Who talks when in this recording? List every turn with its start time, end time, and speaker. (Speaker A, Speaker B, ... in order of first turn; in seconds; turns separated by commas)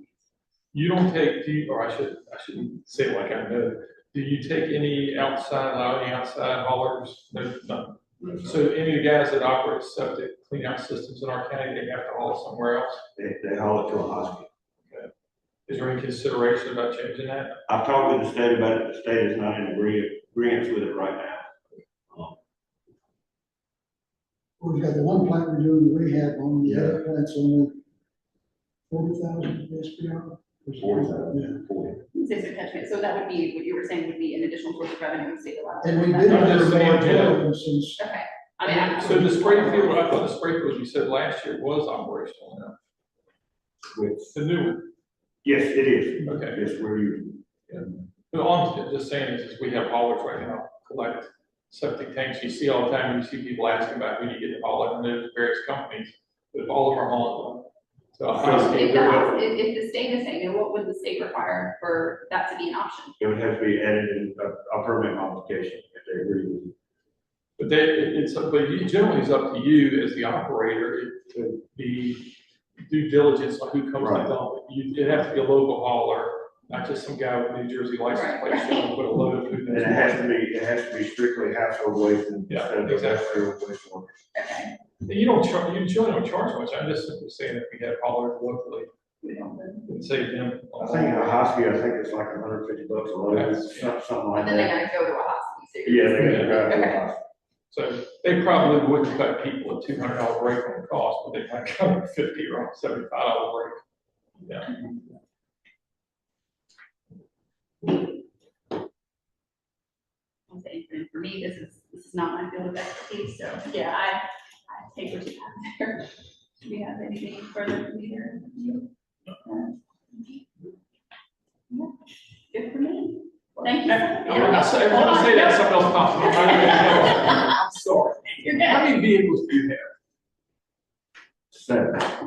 Speaker A: 0.7-13.0, Speaker B: 8.2-8.5, Speaker B: 13.2-14.5, Speaker A: 15.7-17.6, Speaker B: 17.7-21.5, Speaker B: 22.1-22.4, Speaker C: 24.6-27.8, Speaker B: 26.6-27.0, Speaker C: 28.9-31.6, Speaker B: 30.8-32.0, Speaker D: 32.1-36.8, Speaker C: 35.8-38.0, Speaker A: 36.2-37.4, Speaker D: 38.0-40.0, Speaker A: 38.6-42.8, Speaker C: 39.0-39.5, Speaker B: 43.9-44.3, Speaker A: 44.3-44.9, Speaker B: 45.4-47.5, Speaker A: 46.2-46.6, Speaker A: 47.7-59.4, Speaker B: 58.4-58.7, Speaker D: 58.4-63.1, Speaker B: 63.2-66.7, Speaker A: 67.6-80.3, Speaker B: 74.0-74.3, Speaker D: 78.1-78.9, Speaker B: 79.7-84.1, Speaker A: 82.5-83.3, Speaker D: 84.3-84.7, Speaker A: 85.0-88.9, Speaker D: 89.2-89.8, Speaker A: 89.9-91.4, Speaker B: 90.8-94.8, Speaker A: 93.3-94.0, Speaker D: 94.3-97.0, Speaker B: 95.8-97.2, Speaker A: 96.2-96.7, Speaker A: 97.7-103.8, Speaker A: 104.5-104.8, Speaker D: 110.5-118.9, Speaker D: 119.4-120.4, Speaker D: 122.5-127.4, Speaker A: 123.9-129.9, Speaker D: 128.4-128.8, Speaker B: 131.5-132.1